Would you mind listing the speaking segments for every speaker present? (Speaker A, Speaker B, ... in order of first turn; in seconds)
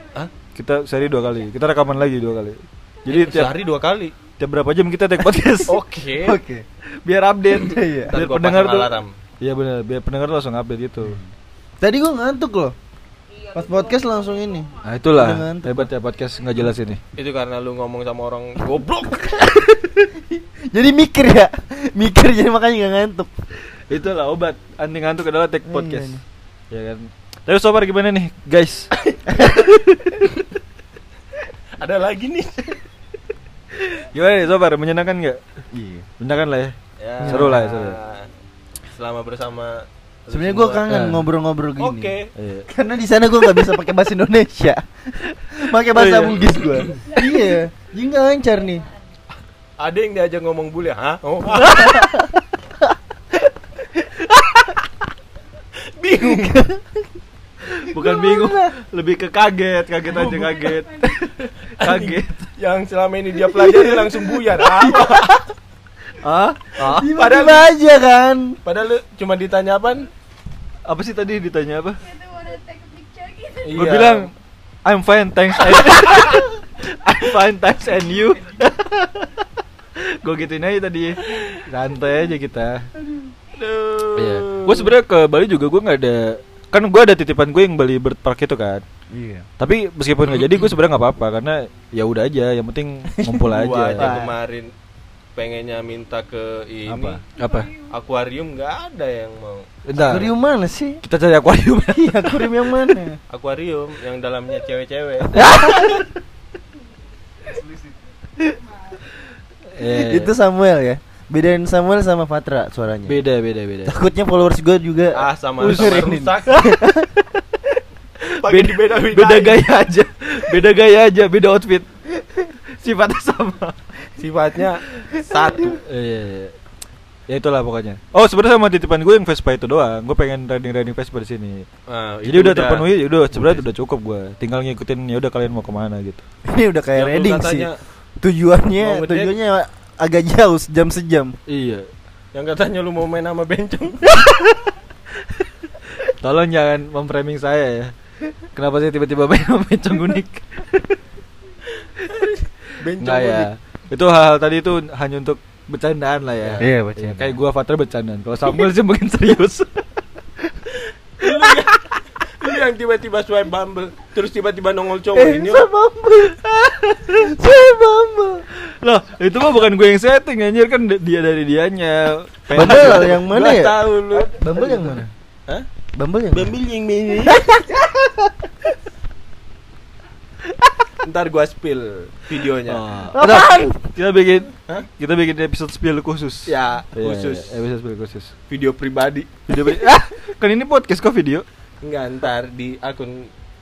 Speaker A: 0.5-3.6, 4.4-5.8, 7.0-11.2, 14.8-17.0, 23.9-28.9, 29.5-30.2, 33.7-35.4, 36.2-38.0, 40.9-41.2, 42.3-42.7, 45.9-46.6, 57.7-62.5, 66.2-67.1, 70.8-72.0, 73.7-74.3, 74.8-82.8, 84.1-88.8, 89.6-94.1, 96.9-97.7, 99.8-100.3, 101.0-102.6, 105.3-106.0, 109.7-110.3, 113.1-113.9, 115.6-116.8, 118.2-123.8, 125.8-126.5, 127.3-131.7, 132.2-136.2, 141.5-141.9, 145.9-147.9, 148.5-151.0, 153.0-159.8, 166.8-167.4, 168.5-173.2, 182.7-188.3, 189.5-191.4
Speaker B: 3.1-4.1, 5.7-6.4, 8.0-9.1, 17.1-19.7, 31.8-32.8, 37.0-38.3, 38.9-41.1, 41.8-42.3, 46.8-47.0, 49.8-52.1, 56.0-56.6, 61.6-65.3, 66.8-67.7, 68.6-70.1, 73.6-74.3, 83.5-84.9, 93.5-94.7, 95.3-97.2, 97.9-99.7, 103.3-106.0, 115.1-116.6, 118.4-119.6, 124.2-125.8, 131.9-133.6, 136.9-137.8, 138.8-139.3, 142.3-144.2, 152.1-153.5, 161.2-165.7, 172.5-175.7, 176.3-177.5, 181.0-182.8, 186.5-187.6, 188.5-189.3, 191.8-193.3
Speaker C: 6.2-6.6, 7.5-8.1, 11.0-11.3, 11.8-12.7, 13.5-15.9, 19.4-23.3, 25.6-26.2, 29.3-29.6, 35.7-36.1, 37.2-37.7, 40.3-42.1, 42.7-48.9, 51.6-52.4, 56.3-57.0, 57.8-58.7, 63.7-65.4, 66.8-68.6, 89.1-89.5, 94.0-94.3, 100.0-101.0, 101.9-103.2, 105.4-106.0, 109.8-113.2, 113.8-117.1, 136.4-137.7, 138.2-141.3, 156.6-157.4, 165.1-168.4, 172.5-175.1, 175.9-176.5, 177.3-178.2, 183.1-183.8
Speaker D: 13.3-14.7, 60.5-61.2, 72.0-73.9